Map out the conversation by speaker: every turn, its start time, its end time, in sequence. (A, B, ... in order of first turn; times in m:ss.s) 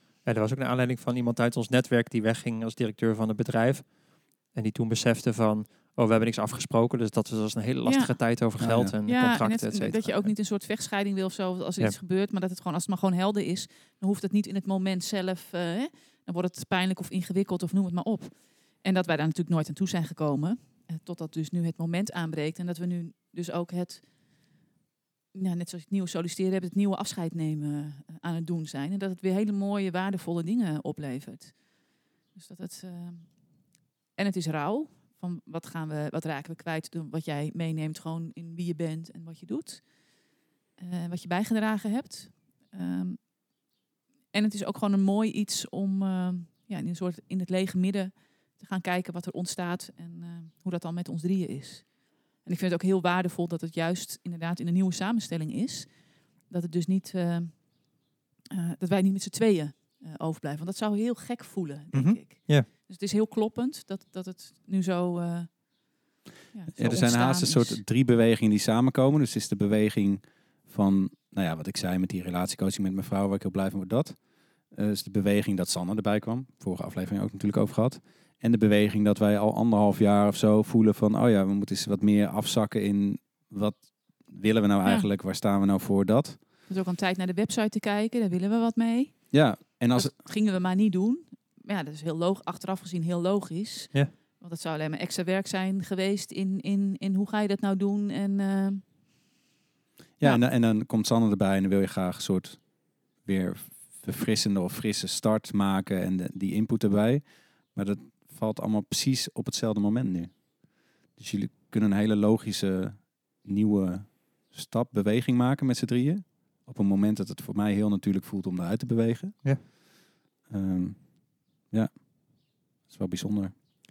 0:00.2-0:10.3 A
0:07.9-0:08.5 B
0:08.6-0:08.9 C
0:09.1-0:24.2 B
0:25.3-1:07.8 B
1:01.9-1:02.7 A
1:06.8-1:26.4 C
1:26.7-1:38.8 B
1:29.3-1:30.1 C
1:40.2-1:59.7 C
2:00.5-2:03.5 C